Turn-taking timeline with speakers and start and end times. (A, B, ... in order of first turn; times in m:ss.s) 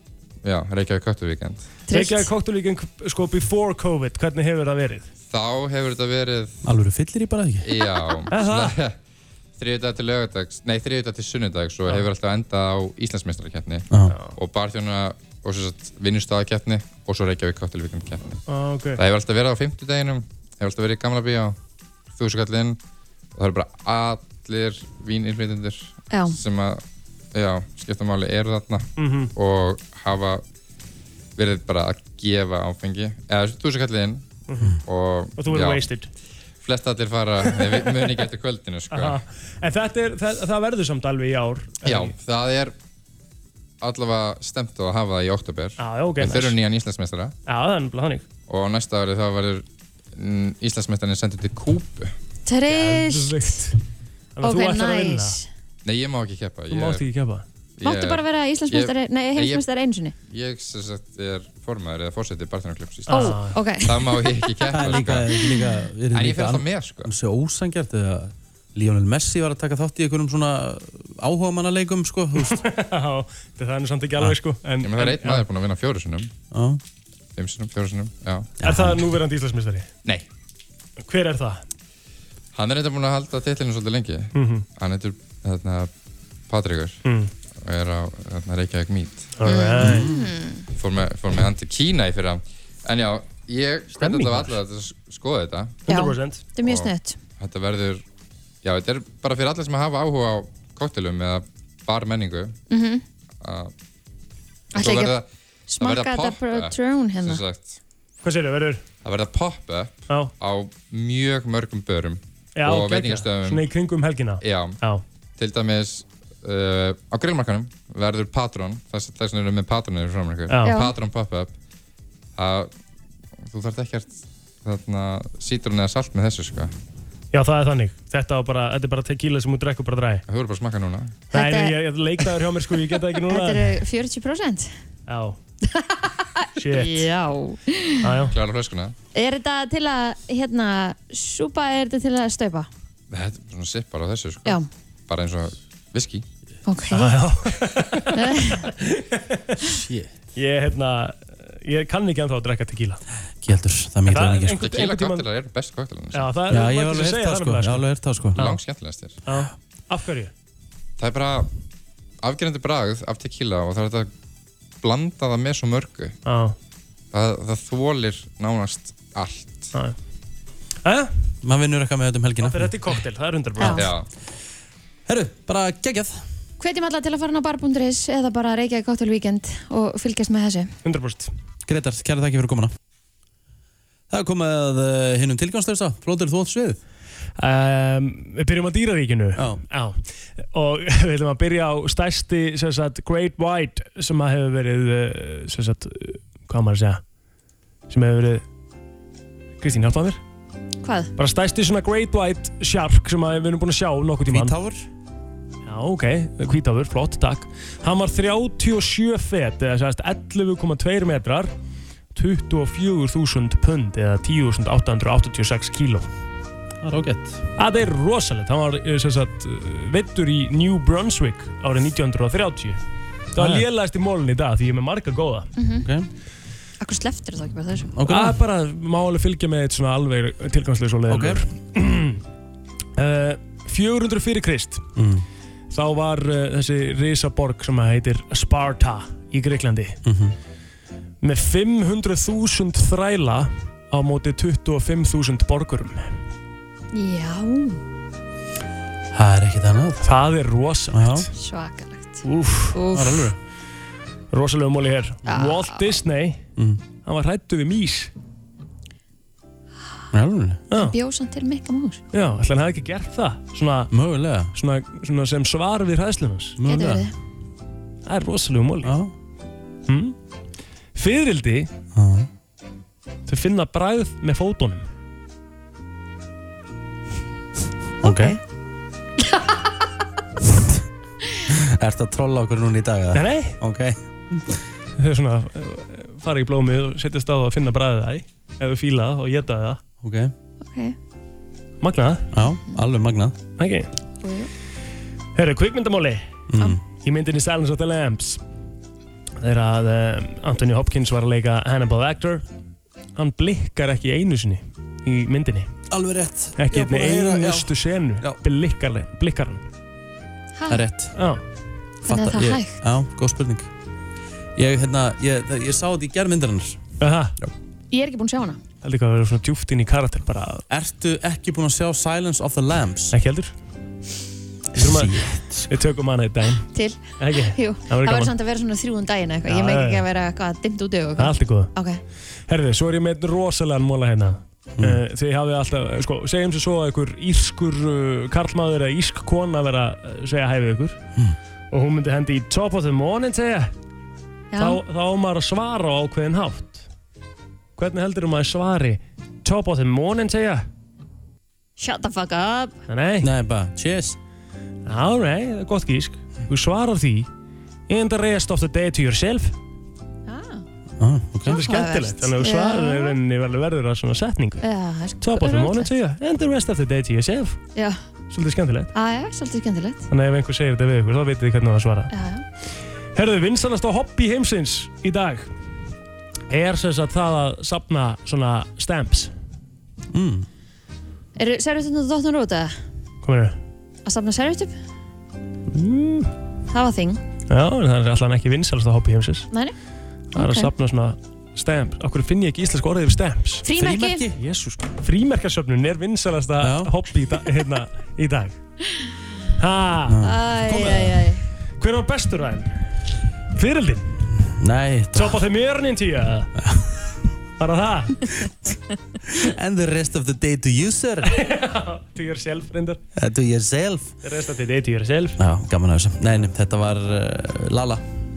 0:00.4-0:01.7 A
0:01.9-0:02.3 B
0:01.9-0:05.1 C
0:05.3-0:06.6 A
0:06.6-0:07.7 D
0:07.6-0:09.0 A
0:08.3-0:08.8 C
0:09.6-0:18.4 A
0:18.5-0:19.0 C
0:19.0-0:21.6 A
0:22.1-0:22.8 A
0:23.4-0:26.8 A
0:26.1-0:26.4 B
0:27.3-0:30.4 A
0:29.0-0:29.3 C
0:31.4-0:34.3 A
0:34.5-0:34.8 C
0:34.9-0:35.9 A
0:35.4-0:36.1 C
0:36.6-0:39.2 A
0:37.5-0:38.1 C
0:38.9-0:42.1 C
0:41.8-0:42.7 A
0:43.8-0:47.4 A
0:45.8-0:46.6 C
0:47.5-0:48.2 C
0:48.5-0:52.1 A
0:52.5-0:53.7 B
0:52.7-0:53.8 C
0:54.4-0:55.4 C
0:54.4-0:55.5 B
0:55.8-0:57.0 A
0:56.7-0:57.4 C
0:57.8-0:59.6 A
0:57.8-1:00.1 B
1:00.3-1:05.3 A
1:03.1-1:03.7 C
1:03.1-1:04.1 B
1:04.7-1:12.6 D
1:05.3-1:05.7 B
1:06.1-1:07.1 A
1:12.4-1:15.4 C
1:14.8-1:16.3 A
1:16.5-1:16.8 D
1:17.4-1:18.6 A
1:18.6-1:19.1 D
1:18.6-1:19.9 C
1:21.0-1:21.6 C
1:22.5-1:25.9 A
1:24.4-1:24.6 C
1:26.5-1:27.0 A
1:27.0-1:27.3 C
1:27.6-1:29.3 A
1:29.4-1:30.1 C
1:29.4-1:30.6 B
1:29.8-1:30.3 D
1:30.7-1:35.8 A
1:34.0-1:34.6 C
1:35.9-1:36.4 C
1:35.9-1:37.2 B
1:36.6-1:38.0 A
1:38.6-1:42.6 A
1:42.7-1:43.0 B
1:43.4-1:43.7 A
1:44.7-1:45.2 B
1:44.7-1:45.3 A
1:45.7-1:47.4 B
1:45.8-1:47.8 A
1:48.2-1:48.8 C
1:49.0-1:53.6 A
1:52.6-1:55.0 C
1:54.4-1:54.8 A
1:55.4-2:01.6 A
2:00.5-2:00.8 C
2:00.6-2:00.9 B
2:02.4-2:02.7 A
2:03.4-2:06.7 A
2:07.3-2:10.2 C
2:10.3-2:11.2 A
2:11.3-2:11.8 B
2:11.3-2:13.8 C
2:13.3-2:14.7 B
2:15.1-2:15.4 C
2:15.6-2:18.1 B
2:16.6-2:17.1 C
2:18.0-2:18.4 C
2:18.3-2:19.0 A
2:19.1-2:22.7 B
2:23.1-2:26.2 A
2:26.7-2:27.2 B
2:26.9-2:29.6 C
2:28.1-2:28.7 B
2:29.6-2:30.1 D
2:30.4-2:33.0 C
2:33.4-2:34.7 D
2:34.1-2:35.3 C
2:34.5-2:36.3 A
2:36.1-2:38.6 C
2:36.5-2:38.6 D
2:38.4-2:39.2 A
2:39.3-2:40.3 C
2:41.0-2:41.5 A
2:42.2-2:44.1 A
2:44.8-2:46.2 A
2:46.3-2:46.6 C
2:47.1-2:49.7 A
2:50.8-2:51.1 C
2:51.4-2:52.8 D
2:52.4-2:53.9 C
2:53.6-2:53.9 B
2:53.6-2:54.1 A
2:55.1-2:56.2 D
2:56.6-3:00.7 B
3:00.8-3:01.3 C
3:01.7-3:02.7 D
3:04.1-3:06.8 D
3:07.4-3:10.0 C
3:09.4-3:09.6 D
3:10.5-3:17.0 C
3:17.9-3:18.4 C
3:19.6-3:20.2 C
3:20.8-3:21.1 B
3:21.2-3:24.6 C
3:24.3-3:24.9 D
3:25.7-3:31.5 C
3:32.2-3:36.1 C
3:36.8-3:37.4 D
3:37.6-3:42.8 C
3:43.3-3:45.5 C
3:43.4-3:43.7 D
3:45.6-3:45.8 B
3:45.8-3:46.1 D
3:46.8-3:47.9 B
3:47.9-3:48.4 D
3:48.1-3:52.2 C
3:51.1-3:51.4 D
3:53.0-3:54.9 C
3:55.0-3:55.2 D
3:55.7-4:00.0 C
4:00.0-4:00.4 D
4:01.2-4:06.1 C
4:06.9-4:07.8 B
4:09.1-4:10.1 D
4:10.0-4:11.3 C
4:10.9-4:11.3 D
4:11.4-4:13.3 B
4:12.2-4:12.8 C
4:12.9-4:13.4 D
4:14.3-4:16.4 C
4:15.2-4:16.0 B
4:16.6-4:16.8 D
4:17.0-4:18.1 C
4:20.1-4:20.6 D
4:20.7-4:22.0 B
4:22.1-4:23.9 C
4:23.9-4:24.5 D
4:24.5-4:26.6 C
4:26.6-4:27.0 D
4:26.6-4:27.1 B
4:28.1-4:29.0 C
4:28.8-4:29.1 D
4:29.9-4:30.2 C
4:31.0-4:31.7 C
4:31.9-4:32.3 D
4:33.3-4:34.9 C
4:38.0-4:38.4 D
4:38.0-4:38.4 B
4:41.5-4:44.6 D
4:43.1-4:43.6 C
4:45.0-4:49.8 C
4:50.0-4:50.3 D
4:50.6-4:51.0 B
4:51.8-4:52.3 C
4:52.3-4:53.4 D
4:53.6-4:53.9 C
4:54.2-4:54.5 B
4:55.4-4:56.3 C
4:56.5-4:56.8 D
4:56.9-4:58.4 C
4:59.4-5:02.4 C
5:03.2-5:05.7 C
5:05.9-5:08.4 D
5:06.6-5:09.6 C
5:10.6-5:10.8 B
5:10.7-5:11.2 D
5:11.2-5:11.4 C
5:12.0-5:12.8 B
5:12.1-5:13.7 D
5:14.6-5:16.8 D
5:17.0-5:17.3 C
5:17.9-5:18.6 B
5:18.8-5:20.6 C
5:20.7-5:23.2 D
5:23.1-5:23.6 C
5:24.7-5:25.7 D
5:24.8-5:28.3 C
5:26.7-5:32.0 B
5:29.5-5:30.1 C
5:31.2-5:31.7 C
5:32.5-5:41.0 C
5:34.8-5:35.0 D
5:41.7-5:43.7 C
5:44.5-5:44.8 B
5:44.6-5:46.9 C
5:47.8-5:50.7 C
5:51.8-5:52.8 B
5:52.9-5:53.3 C
5:53.2-5:54.2 D
5:54.9-5:57.3 C
5:57.9-5:59.5 C
6:00.3-6:00.6 B
6:01.0-6:01.7 D
6:01.4-6:03.2 B
6:01.5-6:04.6 C
6:04.6-6:05.9 B
6:05.2-6:07.6 C
6:08.3-6:08.9 C
6:08.9-6:10.0 B
6:10.1-6:12.1 C
6:12.1-6:12.4 B
6:13.2-6:15.5 C
6:16.5-6:19.3 C
6:20.1-6:20.5 D
6:21.4-6:22.8 B
6:23.2-6:23.6 C
6:24.0-6:24.7 B
6:25.7-6:26.3 C
6:26.7-6:27.2 B
6:27.5-6:29.5 C
6:30.4-6:30.7 B
6:30.4-6:33.7 C
6:33.6-6:34.3 B
6:33.8-6:34.4 D
6:34.4-6:38.6 C
6:36.6-6:36.9 D
6:39.6-6:40.2 C
6:40.1-6:41.1 D
6:40.2-6:41.4 B
6:41.8-6:43.0 C
6:43.5-6:44.3 C
6:44.6-6:45.4 D
6:45.2-6:46.5 C
6:46.6-6:46.9 D
6:47.6-6:48.4 C
6:49.3-6:51.3 D
6:51.2-6:53.0 C
6:53.2-6:54.1 D
6:54.2-6:55.4 C
6:55.4-6:58.0 D